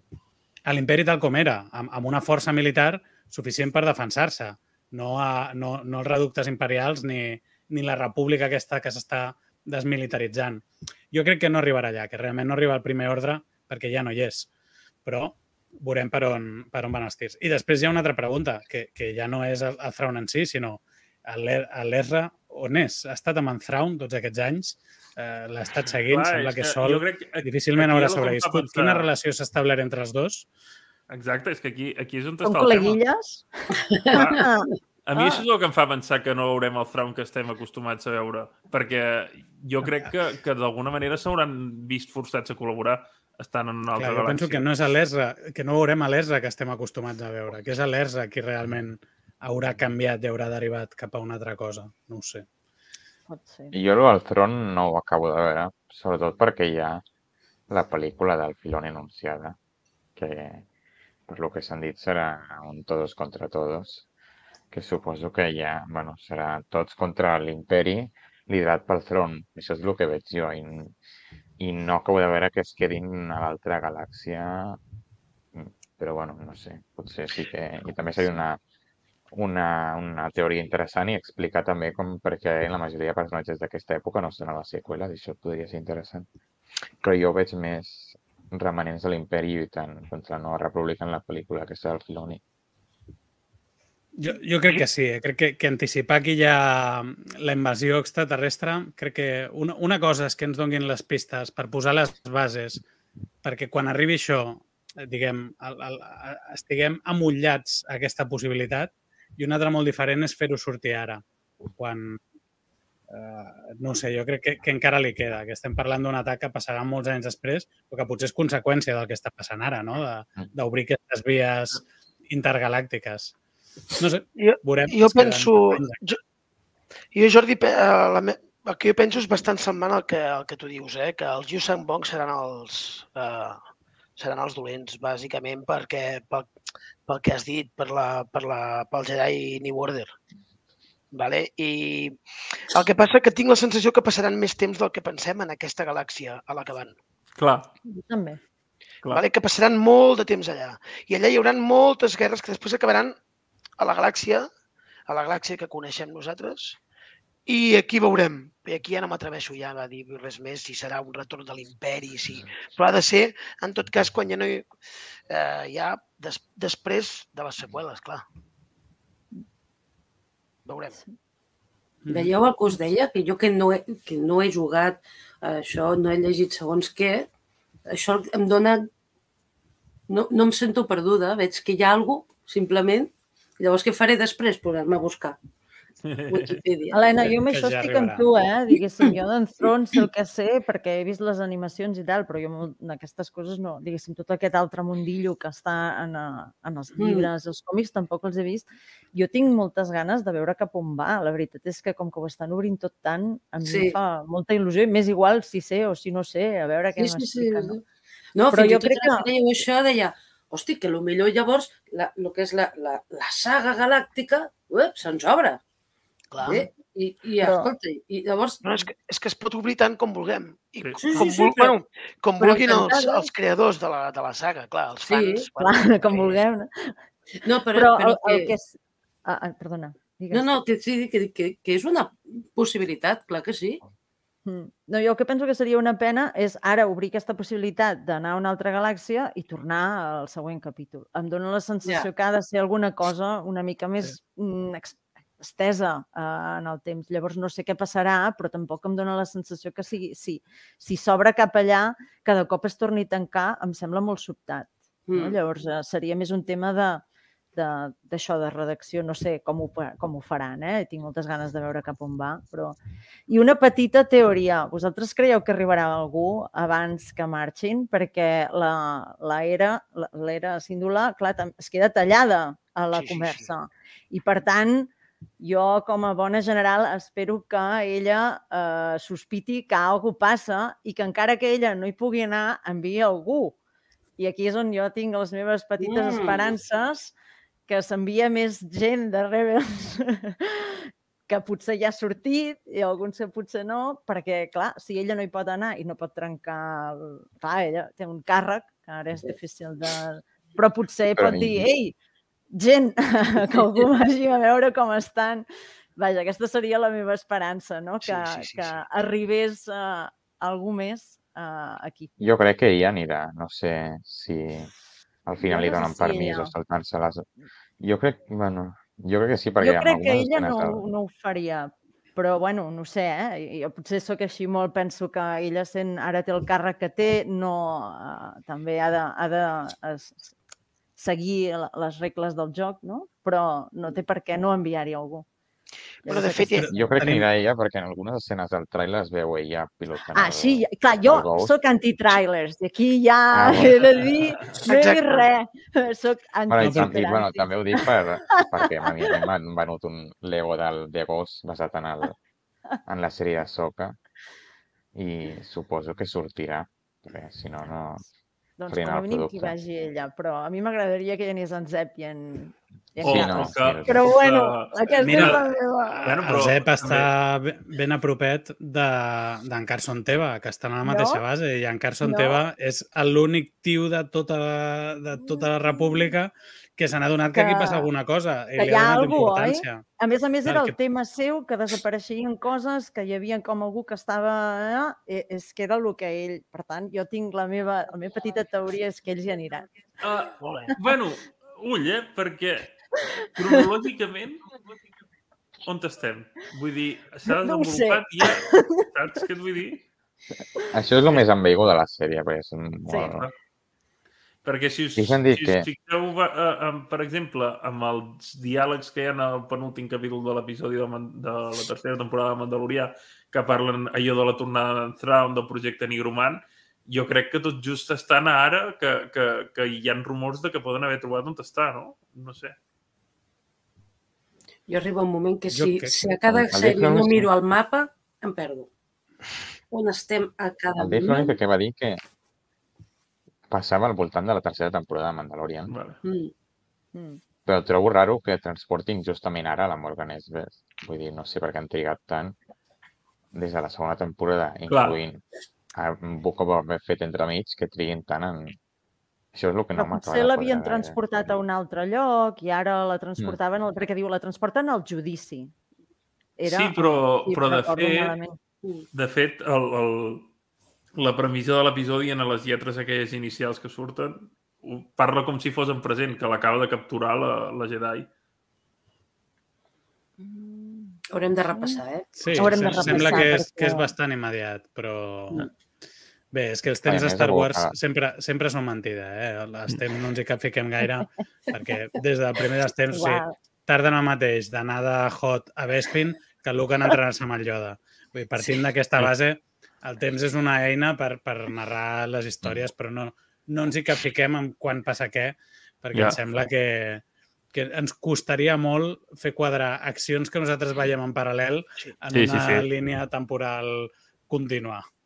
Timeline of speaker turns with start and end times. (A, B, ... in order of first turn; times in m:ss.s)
0:00.6-0:14.5 A
0:15.0-0:30.5 A
0:26.1-0:29.1 B
0:31.1-0:33.0 B
0:32.4-0:33.5 C
0:33.8-0:34.5 D
0:34.1-0:35.4 C
0:34.1-0:34.4 B
0:35.0-0:44.6 B
0:44.0-0:52.4 A
0:53.3-0:53.7 C
0:53.7-0:57.0 E
0:57.7-0:59.6 E
1:00.2-1:00.6 E
1:01.3-1:04.1 E
1:04.7-1:11.0 E
1:11.6-1:14.8 E
1:15.5-1:18.6 E
1:19.3-1:26.3 E
1:27.0-1:32.4 E
1:34.2-1:42.8 A
1:43.4-1:52.2 A
1:53.1-2:03.3 A
2:04.0-2:06.0 A
2:04.4-2:06.2 F
2:07.1-2:13.6 F
2:14.2-2:16.5 F
2:17.1-2:20.1 F
2:21.1-2:27.0 F
2:27.4-2:27.7 B
2:27.8-2:28.4 C
2:29.1-2:33.2 F
2:33.8-2:34.5 F
2:35.1-2:36.8 F
2:37.4-2:44.7 F
2:45.3-2:48.2 F
2:50.6-2:51.0 F
2:52.1-2:52.3 A
2:52.1-2:57.3 D
2:57.9-2:58.9 D
3:00.1-3:05.4 D
3:06.0-3:06.6 B
3:06.3-3:07.1 D
3:06.9-3:27.8 C
3:07.5-3:08.3 A
3:17.0-3:17.3 D
3:23.6-3:24.0 D
3:27.0-3:27.8 D
3:28.4-3:35.6 D
3:28.5-3:29.3 C
3:36.3-3:36.7 F
3:36.4-3:38.8 D
3:37.4-3:37.7 C
3:38.6-3:46.4 F
3:40.8-3:41.2 B
3:41.0-3:41.7 D
3:42.4-3:43.3 C
3:42.5-3:42.9 D
3:45.0-3:45.5 D
3:45.6-3:47.0 C
3:47.4-3:48.5 D
3:47.7-3:50.6 C
3:50.3-3:53.8 D
3:54.4-4:17.0 C
4:15.1-4:15.4 D
4:17.6-4:43.6 C
4:32.9-4:33.5 F
4:44.2-4:47.1 C
4:45.8-4:46.6 D
4:47.7-5:02.0 C
5:01.1-5:01.6 E
5:02.5-5:05.4 C
5:06.0-5:12.1 C
5:08.0-5:08.8 F
5:12.2-5:14.7 E
5:15.2-5:20.8 E
5:15.4-5:16.5 C
5:19.6-5:30.3 C
5:31.0-5:35.3 C
5:36.0-5:36.7 F
5:36.0-5:36.7 C
5:36.6-5:37.3 A
5:36.7-5:41.6 E
5:40.1-5:47.8 C
5:43.3-5:44.0 E
5:44.6-5:45.3 F
5:46.5-5:52.2 E
5:46.6-5:47.0 A
5:52.8-5:54.0 E
5:54.9-5:58.1 E
5:58.6-6:06.1 C
5:58.7-5:59.6 E
6:03.0-6:05.4 B
6:03.0-6:04.0 E
6:05.0-6:19.8 A
6:06.0-6:07.1 B
6:10.8-6:11.2 C
6:12.0-6:12.4 C
6:15.2-6:16.1 C
6:17.3-6:17.9 C
6:18.6-6:29.7 C
6:20.4-6:20.8 A
6:30.0-6:32.7 B
6:30.4-6:30.8 F
6:33.4-6:34.5 B
6:35.6-6:39.8 B
6:37.3-6:38.9 C
6:40.7-6:43.3 E
6:42.9-6:43.1 C
6:44.4-7:02.6 B
6:45.0-6:45.7 E
7:04.7-7:08.7 D
7:05.5-7:06.0 A
7:06.3-7:07.3 E
7:09.7-7:11.4 D
7:10.8-7:12.0 E
7:13.5-7:15.7 E
7:15.7-7:16.0 B
7:16.0-7:16.3 D
7:16.9-7:17.2 C
7:17.4-7:22.4 E
7:23.3-7:25.2 E
7:24.7-7:25.0 B
7:25.7-7:28.6 E
7:29.3-7:31.0 E
7:29.8-7:35.5 C
7:36.4-7:38.4 C
7:36.5-7:38.2 B
7:38.9-7:40.3 B
7:40.9-7:48.1 B
7:50.2-7:51.8 C
7:51.1-7:53.3 D
7:52.2-7:55.5 A
7:52.4-7:53.9 C
7:56.3-8:24.8 A
7:56.8-7:57.7 E
8:02.9-8:03.4 C
8:15.9-8:16.2 B
8:22.1-8:22.7 B